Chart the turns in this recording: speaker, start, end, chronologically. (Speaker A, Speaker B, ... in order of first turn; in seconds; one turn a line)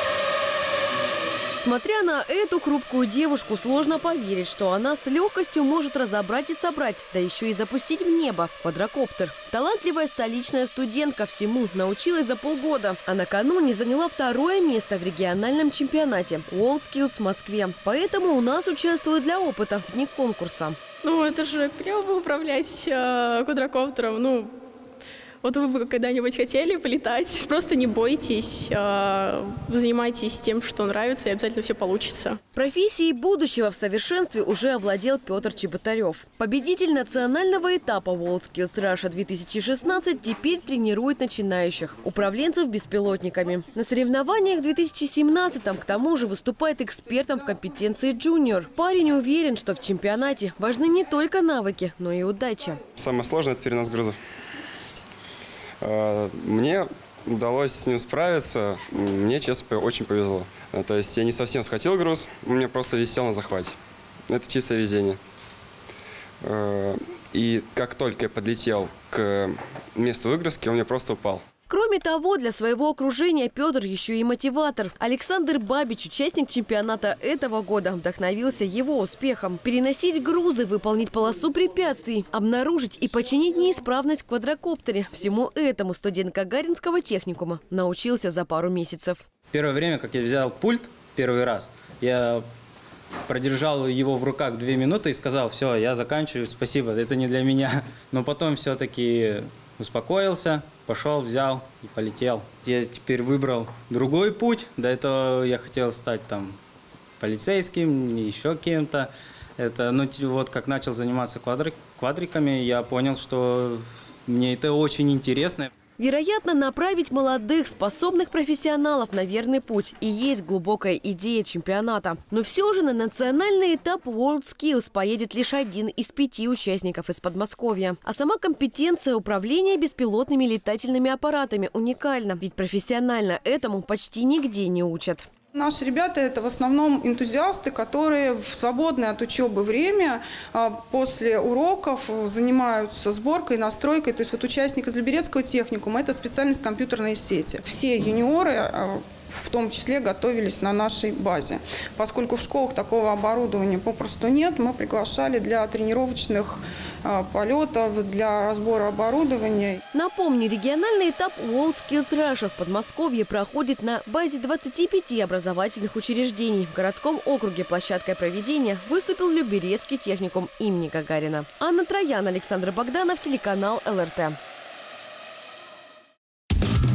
Speaker A: 1.6-20.8
Speaker B: 21.0-24.5
Speaker B: 25.4-32.4
Speaker A: 32.5-52.8
Speaker C: 52.9-54.2
Speaker C: 55.8-63.8
Speaker C: 64.3-65.2
Speaker C: 66.4-71.4
Speaker A: 71.7-89.2
Speaker D: 89.5-92.4
Speaker D: 93.3-106.5
Speaker D: 107.2-115.7
Speaker A: 116.0-135.3
Speaker E: 135.5-159.8
Speaker A: 159.9-174.4